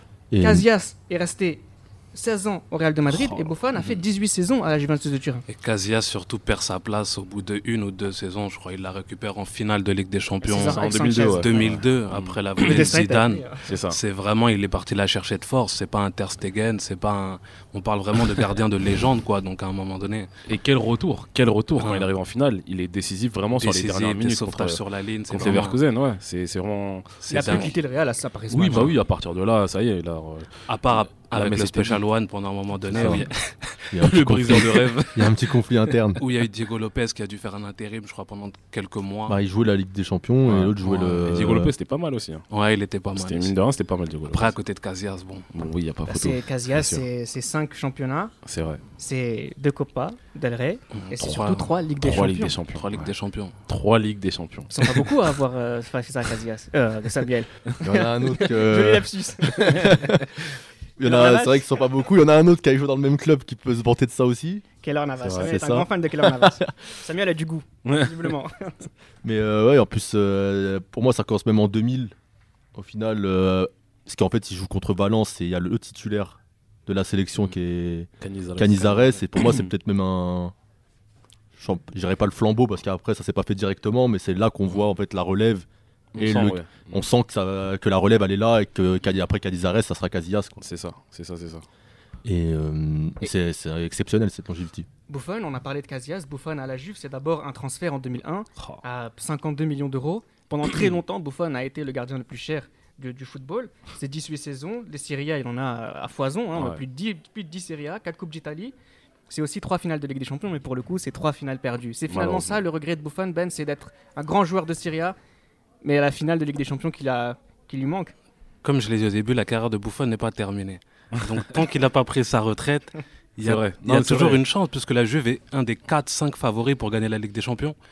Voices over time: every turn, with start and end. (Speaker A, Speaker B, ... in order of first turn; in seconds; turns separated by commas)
Speaker A: 0.3-0.6, Speaker B: 0.4-5.4, Speaker C: 3.1-3.5, Speaker D: 5.5-20.3, Speaker B: 10.4-11.6, Speaker C: 10.6-12.9, Speaker B: 12.6-13.6, Speaker C: 13.6-14.0, Speaker C: 20.5-27.8, Speaker D: 21.8-22.1, Speaker D: 23.5-25.8, Speaker D: 27.2-27.7, Speaker B: 27.3-28.9, Speaker C: 28.5-32.0, Speaker D: 30.7-33.8, Speaker C: 32.9-33.3, Speaker A: 32.9-33.3, Speaker A: 33.9-36.2, Speaker C: 34.0-35.3, Speaker D: 34.5-34.8, Speaker D: 36.2-39.4, Speaker A: 39.3-41.7, Speaker C: 40.5-42.4, Speaker D: 40.8-41.4, Speaker D: 42.5-43.5, Speaker C: 43.1-44.5, Speaker D: 44.3-45.5, Speaker C: 45.5-47.0, Speaker B: 46.1-48.3, Speaker C: 48.4-48.8, Speaker B: 49.0-52.5, Speaker D: 50.9-51.7, Speaker C: 52.0-53.1, Speaker D: 52.8-53.5, Speaker C: 53.6-55.1, Speaker B: 54.7-60.2, Speaker A: 57.8-60.4, Speaker A: 61.0-64.6, Speaker B: 61.0-61.8, Speaker B: 64.8-68.7, Speaker C: 65.2-65.5, Speaker A: 65.2-66.7, Speaker C: 67.8-68.2, Speaker A: 69.2-72.1, Speaker A: 72.7-80.5, Speaker C: 78.2-79.7, Speaker A: 81.5-85.7, Speaker C: 86.1-87.0, Speaker A: 86.2-90.6, Speaker C: 90.6-91.7, Speaker A: 92.2-94.9, Speaker B: 95.1-108.7, Speaker C: 106.5-106.8, Speaker B: 109.3-115.2, Speaker C: 112.1-112.6, Speaker B: 115.8-118.1, Speaker D: 118.6-127.7, Speaker C: 123.4-124.4